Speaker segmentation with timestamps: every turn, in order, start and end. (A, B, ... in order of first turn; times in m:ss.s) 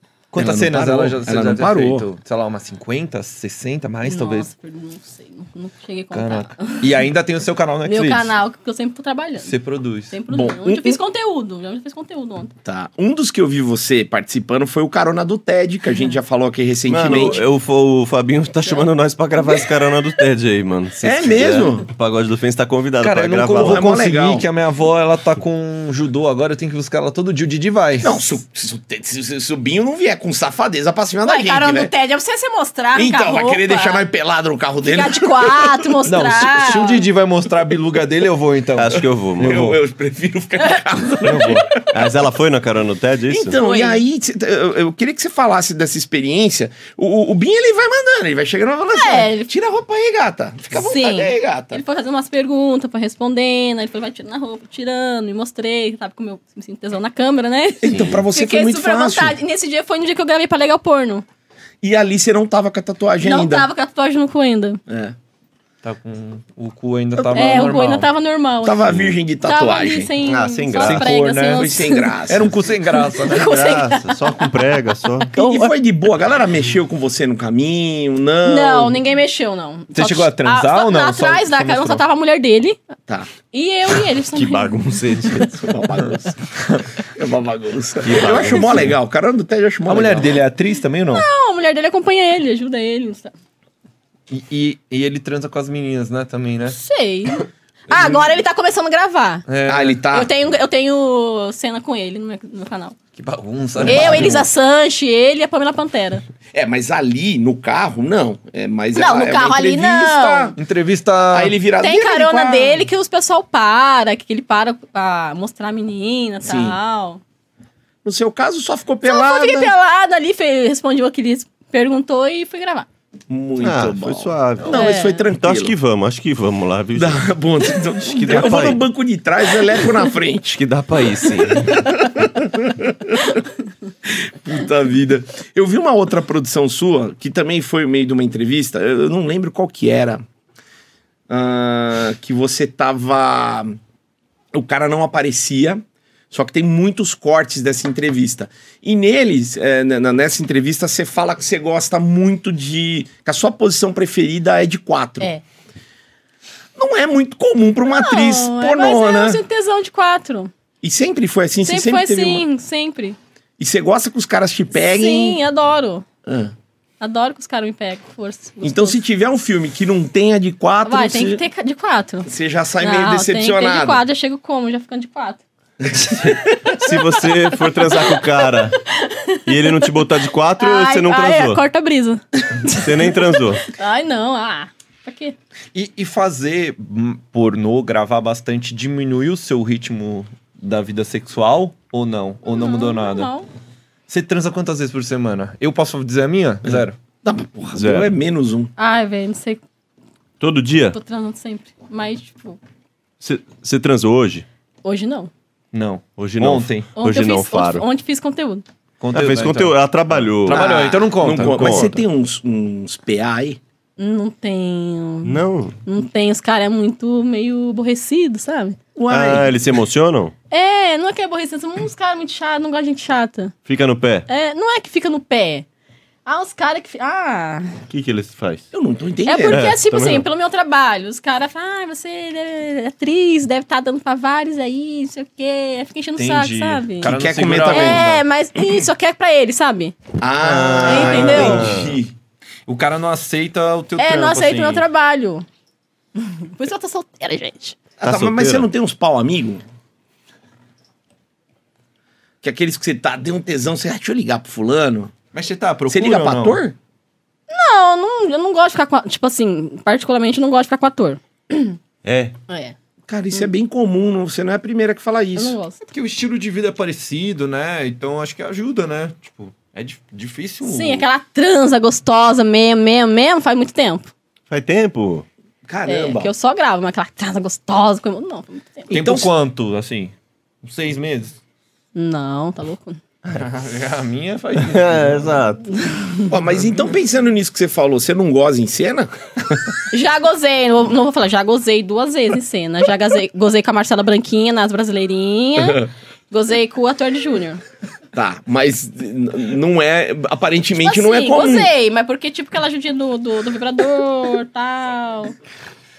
0:00.3-0:04.5 A
0:00.4-0:02.1 B
0:04.0-0:07.0 C
0:06.1-0:08.3 A
0:07.8-0:09.6 C
0:09.4-0:10.2 A
0:10.1-0:12.5 C
0:10.3-0:11.0 B
0:12.6-0:17.4 B
0:16.9-0:23.9 D
0:21.0-0:21.9 B
0:23.0-0:28.2 A
0:23.5-0:24.5 B
0:28.0-0:31.9 B
0:31.2-0:34.1 C
0:33.0-0:36.0 B
0:34.8-0:37.1 C
0:36.1-0:39.8 A
0:38.8-0:39.6 D
0:39.4-0:41.9 B
0:41.2-0:41.7 A
0:41.8-0:43.6 D
0:43.3-0:51.8 B
0:43.6-0:44.0 C
0:48.9-0:49.5 C
0:50.7-1:01.2 C
0:57.8-0:59.4 B
0:57.9-0:58.2 D
1:01.8-1:03.7 B
1:03.2-1:04.8 C
1:04.9-1:05.2 B
1:05.8-1:08.1 A
1:07.2-1:07.6 B
1:07.3-1:12.2 C
1:08.6-1:10.1 B
1:10.2-1:11.1 D
1:10.8-1:11.7 A
1:11.5-1:12.6 B
1:12.2-1:13.6 A
1:12.9-1:14.5 C
1:13.3-1:15.3 D
1:15.2-1:15.7 C
1:15.3-1:19.0 B
1:18.4-1:22.8 C
1:19.9-1:22.0 A
1:23.5-1:24.8 C
1:24.3-1:25.6 D
1:25.5-1:26.4 B
1:26.6-1:26.9 A
1:27.0-1:30.4 B
1:28.0-1:29.0 D
1:28.4-1:28.8 C
1:28.5-1:28.8 A
1:29.9-1:31.3 A
1:31.1-1:33.3 C
1:34.3-1:36.8 A
1:36.7-1:39.5 C
1:37.9-1:38.2 B
1:39.5-1:40.0 A
1:39.7-1:40.3 B
1:40.1-1:43.0 C
1:43.2-1:44.5 A
1:43.8-1:44.4 B
1:43.8-1:46.2 C
1:46.5-1:50.6 B
1:49.0-1:50.6 C
1:50.6-1:51.6 A
1:51.3-1:52.8 B
1:51.8-1:57.2 C
1:56.4-1:56.8 B
1:58.0-1:59.7 B
1:59.0-2:02.9 C
2:03.3-2:05.8 B
2:03.6-2:07.3 D
2:04.7-2:05.2 C
2:07.0-2:10.6 B
2:08.0-2:08.8 D
2:10.5-2:11.9 D
2:11.8-2:13.2 B
2:14.1-2:20.2 B
2:21.3-2:23.8 B
2:24.5-2:35.3 B
2:36.8-2:39.4 B
2:37.9-2:40.5 C
2:40.8-2:42.4 B
2:41.7-2:43.2 C
2:43.6-2:45.4 B
2:44.7-2:46.1 C
2:46.3-2:46.5 B
2:47.0-2:49.0 C
2:48.6-2:51.4 B
2:50.9-2:52.3 C
2:52.3-2:54.0 B
2:52.8-2:55.4 C
2:55.8-2:56.6 B
2:56.7-2:58.8 D
2:57.6-3:00.0 C
2:59.5-3:01.6 D
3:00.6-3:05.4 C
3:02.7-3:03.7 D
3:05.7-3:13.3 A
3:12.4-3:13.5 C
3:14.1-3:17.0 A
3:16.7-3:18.7 B
3:17.7-3:18.1 D
3:18.8-3:19.6 C
3:20.4-3:21.0 D
3:20.9-3:22.6 C
3:23.2-3:24.4 D
3:24.8-3:25.3 C
3:25.7-3:26.9 A
3:26.2-3:27.8 D
3:27.0-3:28.6 C
3:29.0-3:32.0 A
3:29.1-3:32.0 D
3:30.5-3:33.6 B
3:34.0-3:38.8 C
3:35.2-3:35.8 D
3:39.0-3:39.5 B
3:39.1-3:40.3 D
3:40.5-3:43.6 C
3:43.7-3:44.3 D
3:44.3-3:45.7 C
3:46.3-3:47.8 C
3:47.9-3:48.7 D
3:48.7-3:49.7 B
3:49.3-3:57.1 C
3:49.5-3:50.3 D
3:56.2-3:58.2 A
3:57.0-3:58.1 B
3:57.7-4:00.0 C
4:00.2-4:02.1 B
4:00.4-4:02.0 D
4:00.9-4:01.7 C
4:02.7-4:04.8 A
4:04.0-4:05.5 C
4:06.2-4:07.8 C
4:08.0-4:09.6 B
4:08.1-4:08.6 A
4:12.4-4:15.1 B
4:15.3-4:16.6 A
4:15.9-4:16.8 B
4:17.5-4:21.8 C
4:22.0-4:22.4 D
4:22.5-4:22.8 C
4:23.1-4:25.6 B
4:25.4-4:25.9 C
4:25.9-4:31.1 A
4:30.6-4:34.1 C
4:34.5-4:35.3 D
4:35.7-4:36.3 B
4:35.9-4:38.9 C
4:38.9-4:39.3 B
4:38.9-4:41.4 A
4:42.0-4:43.0 C
4:43.3-4:45.4 A
4:44.6-4:45.8 D
4:46.3-4:49.1 B
4:49.9-4:57.6 C
4:58.1-5:01.7 B
5:00.8-5:05.3 C